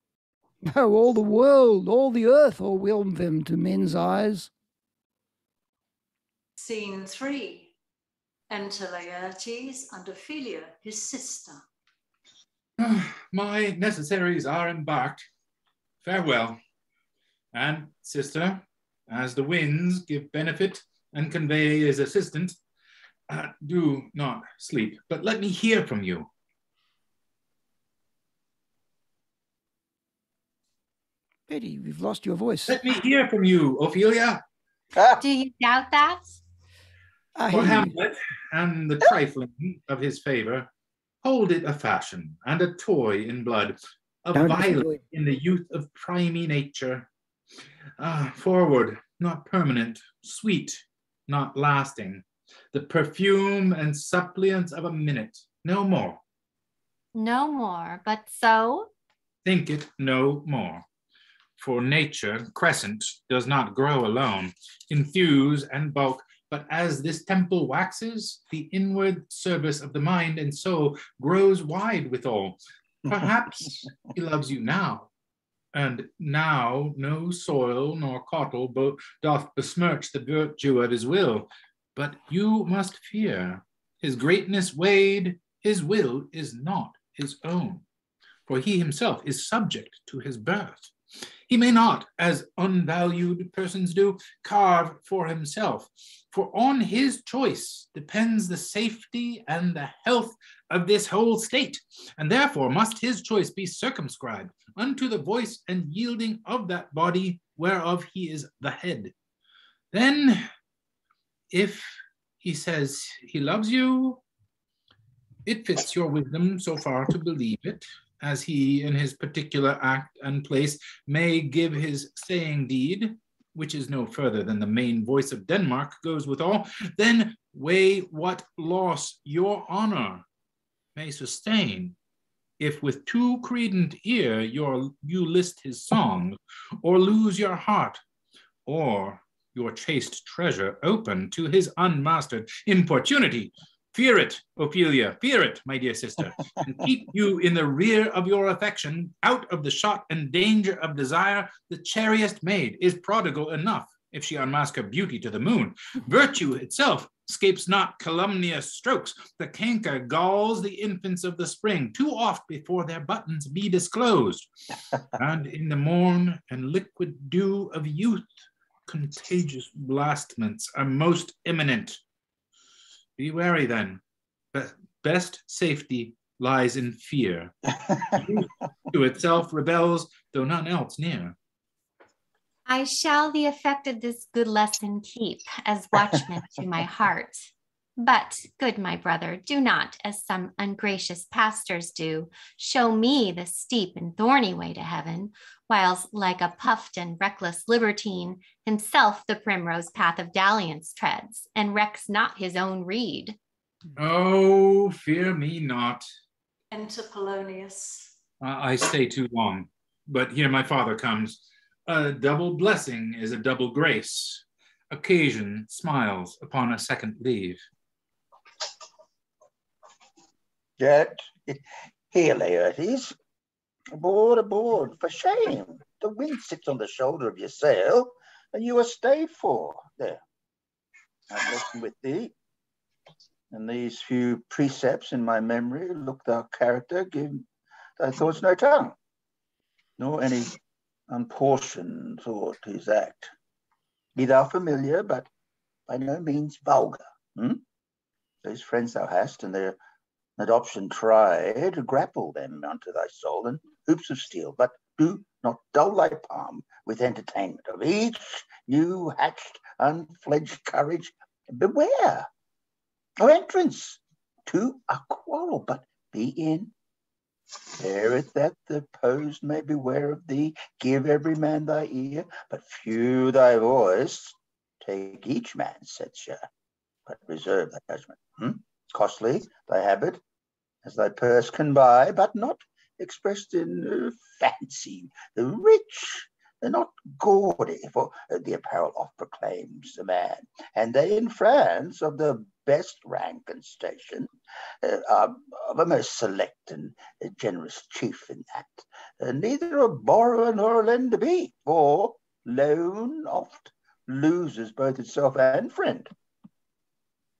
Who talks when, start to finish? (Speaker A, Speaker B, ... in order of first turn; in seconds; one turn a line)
Speaker A: 0.6-4.5
Speaker B: 6.6-7.7
Speaker B: 8.5-11.6
Speaker C: 12.8-15.2
Speaker C: 16.0-16.6
Speaker C: 17.5-22.6
Speaker C: 23.3-26.3
Speaker A: 31.5-32.8
Speaker C: 32.7-34.4
Speaker D: 35.0-35.2
Speaker E: 35.2-36.4
Speaker A: 37.4-37.9
Speaker C: 37.5-40.7
Speaker C: 41.2-47.1
Speaker A: 44.3-45.0
Speaker C: 48.0-56.2
Speaker E: 57.1-58.9
Speaker C: 59.4-60.8
Speaker C: 61.6-75.1
Speaker C: 75.7-87.8
Speaker C: 88.5-90.9
Speaker C: 91.5-109.1
Speaker C: 109.9-110.4
Speaker C: 111.5-114.2
Speaker C: 115.5-130.2
Speaker C: 130.9-131.9
Speaker C: 132.6-138.0
Speaker C: 138.7-164.5
Speaker C: 165.2-168.2
Speaker C: 168.9-172.0
Speaker C: 173.2-174.0
Speaker C: 174.5-181.3
Speaker E: 182.7-203.4
Speaker C: 203.9-206.0
Speaker B: 206.7-208.1
Speaker C: 208.4-217.6
Speaker D: 220.8-223.2
Speaker D: 223.9-230.2
Speaker D: 231.3-232.3
Speaker D: 233.5-237.5
Speaker D: 238.0-238.9
Speaker D: 240.0-240.6
Speaker D: 241.1-243.3
Speaker D: 244.2-245.3
Speaker D: 245.9-247.6
Speaker D: 248.4-249.8
Speaker D: 250.4-262.3
Speaker D: 263.2-266.7
Speaker D: 267.7-276.4
Speaker D: 277.1-280.2
Speaker D: 280.8-294.3
Speaker D: 294.8-306.1